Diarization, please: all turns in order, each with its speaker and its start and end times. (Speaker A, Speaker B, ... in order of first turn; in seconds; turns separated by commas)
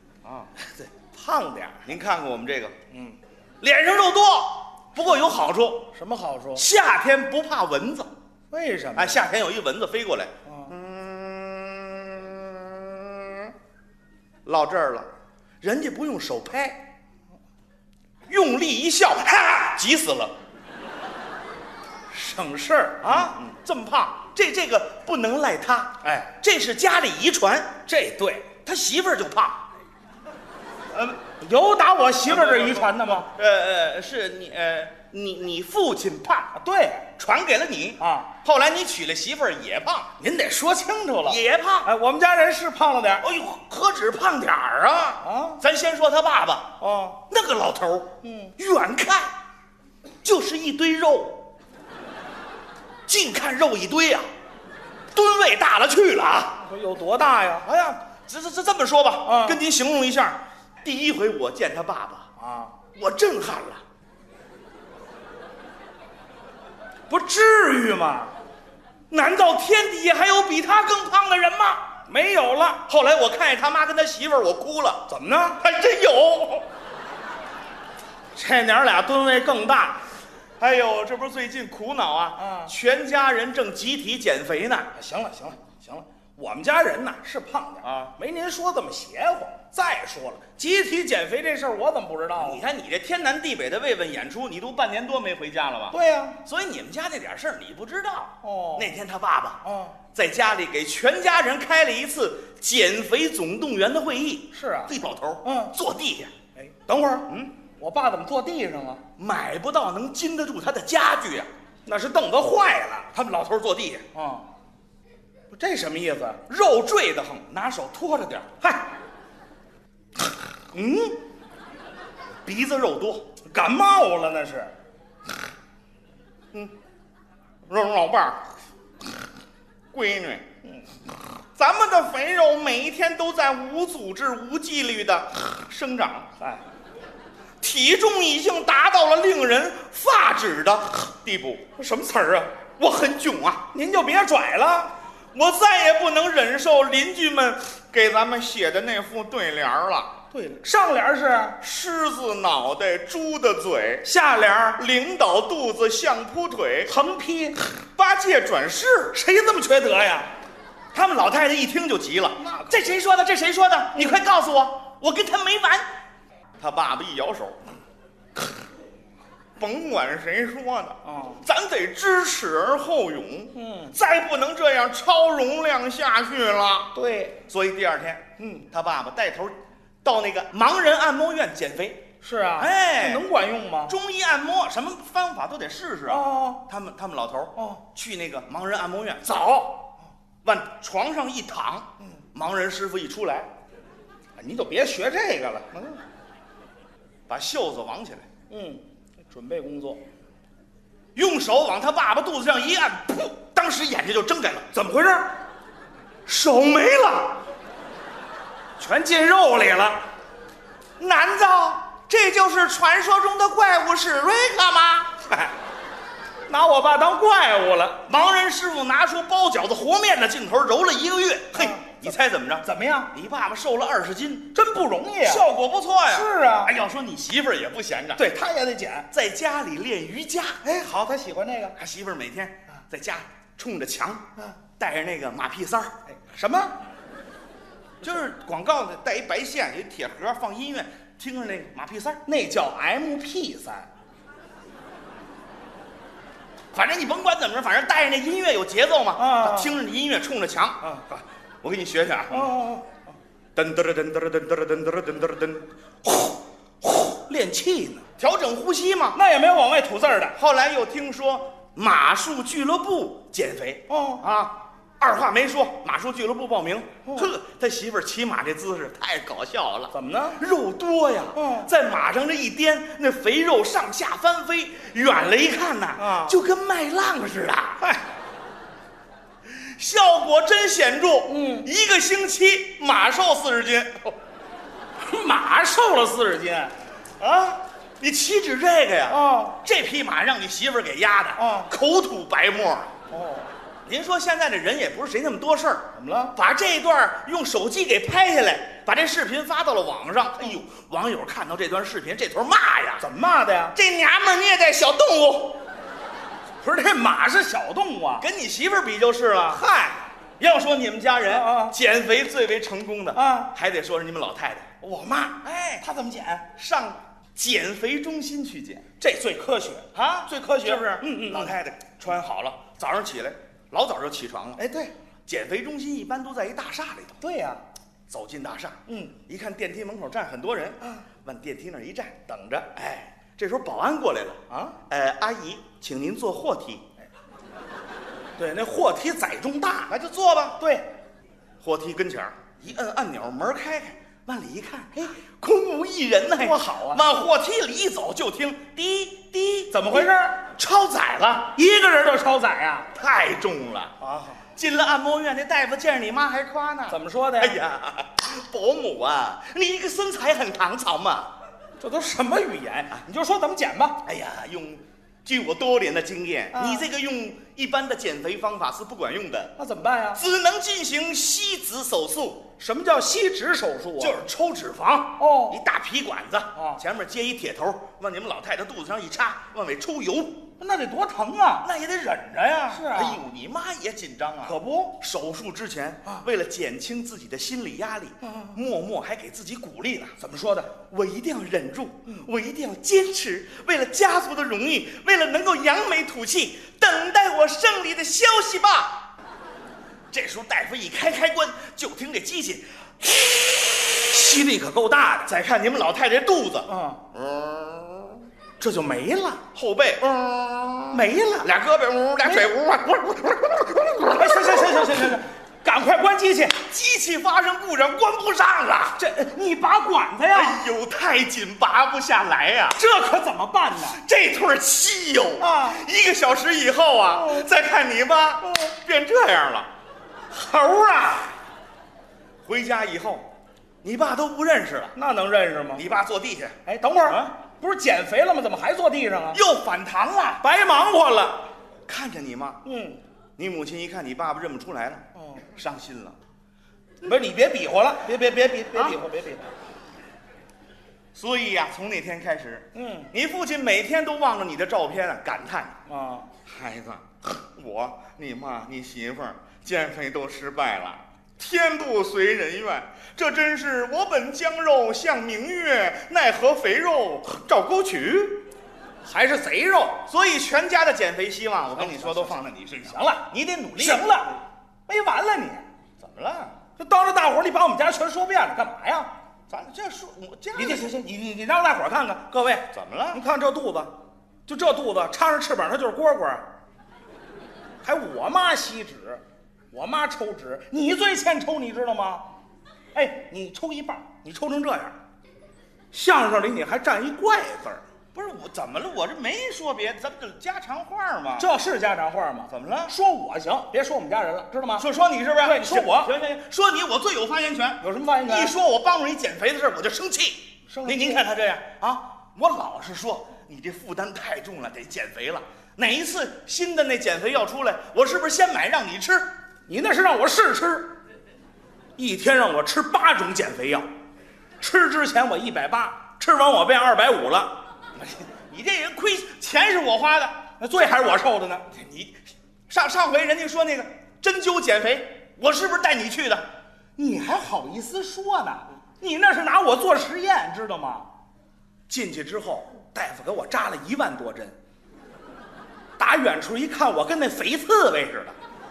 Speaker A: 0.2-0.8, Speaker B: 1.0-1.9, Speaker A: 1.9-2.8, Speaker B: 2.9-3.2, Speaker A: 3.6-5.9, Speaker B: 5.9-6.6, Speaker A: 6.5-8.1, Speaker B: 8.5-9.2, Speaker A: 9.0-13.5, Speaker B: 10.5-10.7, Speaker A: 14.4-15.1, Speaker A: 15.6-16.9, Speaker A: 18.3-20.3, Speaker B: 22.1-23.3, Speaker A: 23.0-27.8, Speaker B: 26.0-26.3, Speaker B: 27.9-28.5, Speaker A: 28.6-29.7, Speaker A: 30.9-31.2, Speaker B: 31.4-33.3, Speaker A: 32.3-36.5, Speaker B: 36.5-37.1, Speaker A: 37.2-40.1, Speaker B: 38.0-38.3, Speaker B: 40.2-43.2, Speaker A: 41.2-41.9, Speaker A: 43.2-46.7, Speaker B: 45.2-45.6, Speaker B: 46.8-47.2, Speaker A: 47.3-49.3, Speaker B: 48.2-48.5, Speaker A: 50.2-51.4, Speaker A: 53.1-54.3, Speaker A: 55.1-56.6, Speaker B: 56.6-57.7, Speaker A: 57.6-62.3, Speaker B: 59.2-59.6, Speaker B: 62.4-62.8, Speaker A: 62.9-63.8, Speaker B: 67.1-68.3, Speaker A: 69.1-71.9, Speaker B: 72.1-72.8, Speaker A: 72.8-75.1, Speaker B: 75.1-75.6, Speaker A: 75.6-76.7, Speaker B: 78.3-80.1, Speaker A: 80.6-84.9, Speaker B: 82.4-82.7, Speaker B: 84.9-92.6, Speaker A: 87.8-88.2, Speaker A: 92.4-106.3, Speaker B: 95.9-96.4, Speaker B: 98.4-98.9, Speaker B: 99.6-100.0, Speaker B: 104.5-105.8, Speaker B: 106.6-109.0, Speaker A: 109.2-111.5, Speaker B: 111.8-113.1, Speaker A: 113.1-114.0, Speaker B: 114.1-114.5, Speaker B: 115.5-116.4, Speaker A: 116.5-118.5, Speaker B: 118.6-118.9, Speaker B: 120.8-121.1, Speaker A: 122.4-123.2, Speaker B: 123.5-124.7, Speaker A: 127.7-128.5, Speaker A: 129.9-130.4, Speaker A: 131.5-136.3, Speaker A: 137.6-141.7, Speaker B: 141.8-142.5, Speaker A: 142.8-143.7, Speaker B: 143.7-144.9, Speaker A: 145.3-150.2, Speaker B: 150.3-151.6, Speaker A: 151.6-154.1, Speaker B: 154.0-154.8, Speaker A: 154.8-156.9, Speaker B: 156.8-157.6, Speaker A: 157.8-159.2, Speaker B: 159.1-160.3, Speaker A: 160.9-165.9, Speaker B: 162.4-162.8, Speaker A: 166.6-167.6, Speaker A: 169.6-176.9, Speaker B: 171.0-171.4, Speaker B: 173.5-173.9, Speaker B: 176.9-177.4, Speaker A: 177.5-183.2, Speaker B: 178.4-178.6, Speaker B: 182.2-183.9, Speaker A: 183.9-189.6, Speaker B: 186.1-186.6, Speaker B: 189.3-189.8, Speaker A: 190.4-193.5, Speaker B: 194.4-195.8, Speaker A: 197.3-198.2, Speaker B: 198.5-200.0, Speaker A: 201.1-204.7, Speaker B: 204.7-205.4, Speaker A: 206.2-207.4, Speaker B: 208.8-210.1, Speaker A: 211.0-215.2, Speaker B: 216.5-218.0, Speaker A: 218.1-224.5, Speaker B: 221.5-222.1, Speaker B: 222.6-223.1, Speaker B: 224.5-225.4, Speaker A: 225.2-228.2, Speaker B: 226.1-226.8, Speaker B: 228.2-229.1, Speaker A: 229.1-230.6, Speaker B: 230.6-231.8, Speaker A: 231.8-234.2, Speaker A: 234.8-235.9, Speaker B: 236.1-236.8, Speaker A: 238.0-242.2, Speaker B: 242.2-243.9, Speaker A: 246.7-250.8, Speaker B: 249.2-249.8, Speaker B: 250.8-251.2, Speaker A: 251.6-252.6, Speaker B: 252.3-253.1, Speaker A: 253.6-255.7, Speaker B: 256.1-258.1, Speaker A: 258.2-259.2, Speaker B: 259.1-260.4, Speaker A: 260.4-277.8, Speaker B: 263.9-264.2, Speaker B: 269.9-270.4, Speaker B: 271.3-271.7, Speaker B: 276.0-276.4, Speaker A: 279.5-284.1, Speaker B: 281.3-281.7, Speaker B: 285.0-286.8, Speaker A: 287.2-292.9, Speaker B: 289.1-289.6, Speaker B: 291.4-291.7, Speaker B: 293.1-293.5, Speaker A: 293.8-303.1, Speaker B: 295.9-296.3, Speaker B: 303.0-303.8, Speaker A: 303.7-305.6, Speaker B: 306.6-308.2, Speaker A: 308.2-309.6, Speaker B: 309.5-310.0, Speaker A: 310.4-314.7, Speaker B: 311.3-311.8, Speaker B: 313.1-313.5, Speaker B: 314.8-316.4, Speaker A: 315.4-315.8, Speaker A: 316.5-318.9, Speaker B: 319.0-321.6, Speaker A: 319.9-324.6, Speaker B: 324.6-324.9, Speaker A: 325.3-327.2, Speaker B: 327.2-327.6, Speaker A: 328.1-336.8, Speaker B: 328.9-329.1, Speaker B: 332.3-332.7, Speaker B: 334.5-334.8, Speaker B: 338.4-339.9, Speaker A: 339.9-340.6, Speaker B: 340.6-340.9, Speaker A: 341.6-351.6, Speaker B: 346.4-347.0, Speaker B: 349.7-350.5, Speaker B: 351.5-352.9, Speaker A: 352.9-353.9, Speaker B: 354.0-354.4, Speaker A: 354.6-361.3, Speaker B: 356.9-357.6, Speaker B: 361.8-364.0, Speaker A: 364.0-369.5, Speaker B: 366.5-366.9, Speaker B: 369.6-370.2, Speaker A: 370.1-372.4, Speaker B: 372.6-374.2, Speaker A: 374.0-380.4, Speaker B: 375.2-375.6, Speaker B: 376.6-376.8, Speaker B: 380.6-381.7, Speaker A: 381.6-390.2, Speaker B: 382.7-383.2, Speaker B: 384.4-385.0, Speaker B: 388.2-388.6, Speaker B: 390.2-390.7, Speaker A: 390.9-399.1, Speaker A: 400.1-403.4, Speaker B: 403.8-405.3, Speaker A: 405.2-408.2, Speaker B: 406.7-407.0, Speaker B: 408.6-409.4, Speaker A: 409.5-415.0, Speaker B: 410.9-411.6, Speaker B: 412.2-412.6, Speaker B: 413.8-416.6, Speaker A: 416.6-419.0, Speaker B: 419.0-420.6, Speaker A: 420.3-422.8, Speaker B: 422.8-424.0, Speaker A: 423.8-429.7, Speaker B: 425.4-425.8, Speaker B: 427.1-427.5, Speaker B: 430.3-431.3, Speaker A: 432.4-433.3, Speaker A: 433.8-434.9, Speaker B: 434.9-435.8, Speaker A: 435.8-436.6, Speaker B: 436.6-439.4, Speaker A: 439.3-440.4, Speaker B: 440.4-441.5, Speaker A: 441.9-442.6, Speaker B: 442.6-443.0, Speaker A: 443.4-446.2, Speaker B: 445.1-445.4, Speaker B: 447.0-449.5, Speaker A: 451.1-455.8, Speaker B: 452.8-453.1, Speaker B: 455.9-456.3, Speaker A: 456.4-468.4, Speaker B: 469.1-470.1, Speaker A: 470.1-474.1, Speaker B: 471.7-475.7, Speaker A: 476.0-476.6, Speaker B: 476.8-479.1, Speaker A: 479.5-480.9, Speaker B: 480.6-483.9, Speaker A: 482.7-483.2, Speaker B: 484.4-486.4, Speaker B: 487.8-492.3, Speaker B: 492.9-494.9, Speaker B: 495.9-497.8, Speaker A: 498.1-501.5, Speaker B: 501.4-504.9, Speaker A: 502.5-502.9, Speaker A: 504.8-519.3, Speaker B: 505.4-506.1, Speaker B: 507.8-508.6, Speaker B: 510.7-511.2, Speaker B: 519.7-520.9, Speaker B: 522.0-523.9, Speaker B: 524.6-527.6, Speaker A: 528.0-530.5, Speaker B: 530.6-531.7, Speaker A: 531.7-532.2, Speaker A: 532.7-536.4, Speaker B: 537.0-541.1, Speaker A: 541.9-542.7, Speaker B: 542.6-544.6, Speaker B: 546.0-548.4